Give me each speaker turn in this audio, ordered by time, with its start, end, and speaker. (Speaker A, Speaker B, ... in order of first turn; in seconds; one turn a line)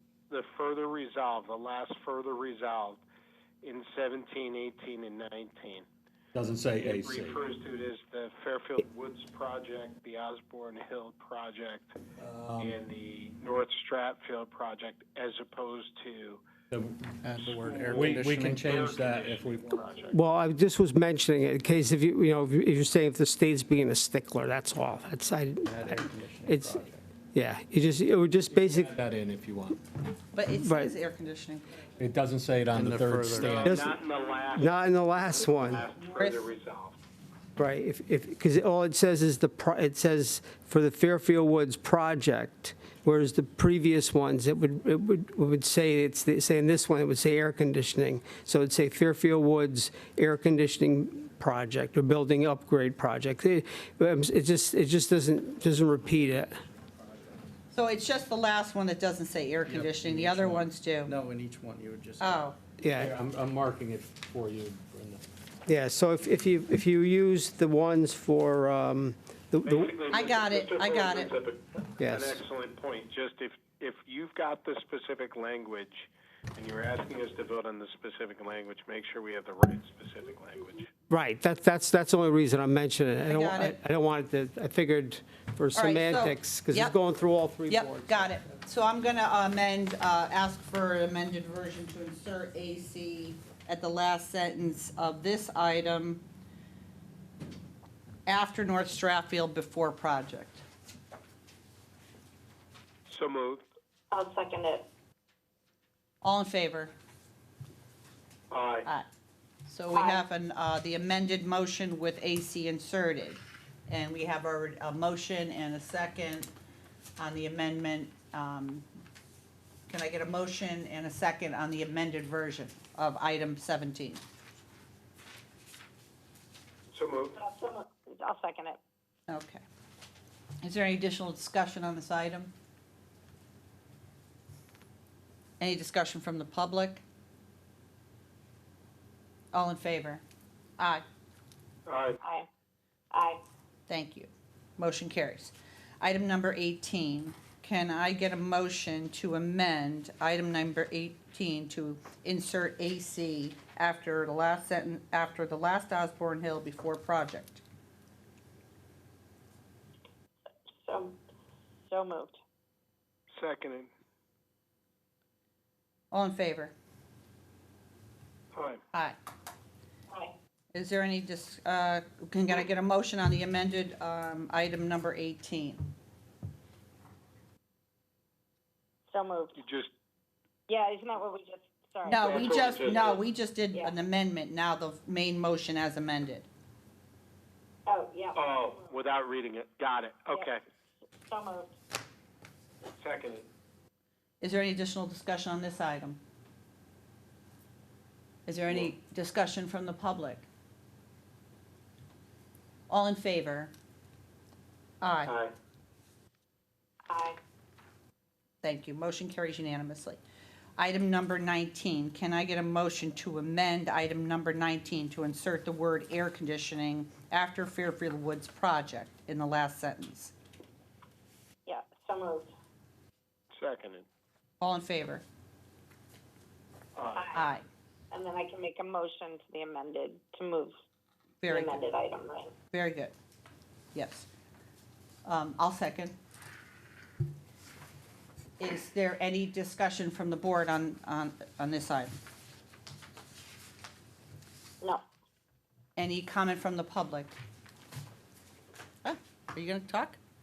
Speaker A: 0.3-3.0
Speaker A: 3.6-5.8
Speaker B: 6.3-7.4
Speaker A: 6.8-12.0
Speaker B: 12.2-12.8
Speaker A: 12.6-16.4
Speaker B: 16.7-19.8
Speaker C: 17.2-18.7
Speaker A: 17.4-20.2
Speaker D: 20.1-28.9
Speaker C: 25.6-27.0
Speaker B: 28.5-29.8
Speaker E: 30.3-31.6
Speaker D: 30.5-31.0
Speaker B: 32.0-33.9
Speaker C: 32.7-33.6
Speaker A: 33.4-37.0
Speaker D: 33.6-33.9
Speaker D: 34.5-35.9
Speaker E: 36.2-36.5
Speaker D: 37.6-56.6
Speaker E: 57.7-61.1
Speaker C: 59.6-62.5
Speaker E: 62.2-62.5
Speaker D: 62.8-63.1
Speaker B: 62.9-65.2
Speaker D: 65.7-70.0
Speaker A: 69.6-80.9
Speaker E: 70.0-71.3
Speaker D: 72.0-72.4
Speaker D: 81.1-88.3
Speaker E: 83.2-83.8
Speaker E: 85.7-87.0
Speaker E: 87.7-96.2
Speaker E: 98.2-100.6
Speaker A: 103.1-103.6
Speaker F: 104.1-104.9
Speaker E: 106.2-106.9
Speaker A: 108.5-108.9
Speaker E: 109.7-116.5
Speaker F: 109.9-110.2
Speaker E: 117.2-118.9
Speaker E: 119.9-124.2
Speaker A: 126.9-127.4
Speaker F: 127.3-128.8
Speaker E: 129.3-129.6
Speaker E: 130.6-132.5
Speaker E: 135.6-137.0
Speaker E: 139.5-140.2
Speaker E: 140.8-141.0
Speaker A: 141.8-142.2
Speaker F: 142.2-142.5
Speaker F: 143.1-143.4
Speaker E: 143.9-157.6
Speaker F: 160.8-161.2
Speaker F: 161.9-162.4
Speaker A: 163.3-163.9
Speaker E: 166.1-166.7
Speaker A: 168.5-168.8
Speaker E: 168.9-169.2
Speaker E: 170.7-175.9
Speaker F: 179.1-179.6
Speaker A: 179.6-179.9
Speaker F: 180.7-183.1
Speaker E: 182.0-186.5
Speaker A: 182.2-183.3
Speaker F: 187.8-188.9
Speaker A: 188.3-190.6
Speaker F: 191.3-191.7
Speaker A: 193.0-193.5
Speaker E: 194.4-196.2
Speaker E: 198.4-200.5
Speaker A: 198.7-198.9
Speaker E: 202.9-203.7
Speaker E: 205.0-205.3
Speaker A: 205.2-205.5
Speaker F: 207.1-207.4
Speaker E: 208.6-210.2
Speaker E: 210.8-220.3
Speaker F: 221.6-222.5
Speaker A: 223.5-224.1
Speaker E: 224.6-225.2
Speaker A: 226.9-227.4
Speaker E: 227.3-227.6
Speaker F: 228.1-230.7
Speaker E: 231.4-231.9
Speaker F: 231.4-232.5
Speaker E: 232.7-233.1
Speaker E: 233.9-234.3
Speaker E: 235.2-236.1
Speaker E: 238.6-242.1
Speaker E: 245.9-247.3
Speaker E: 249.0-250.2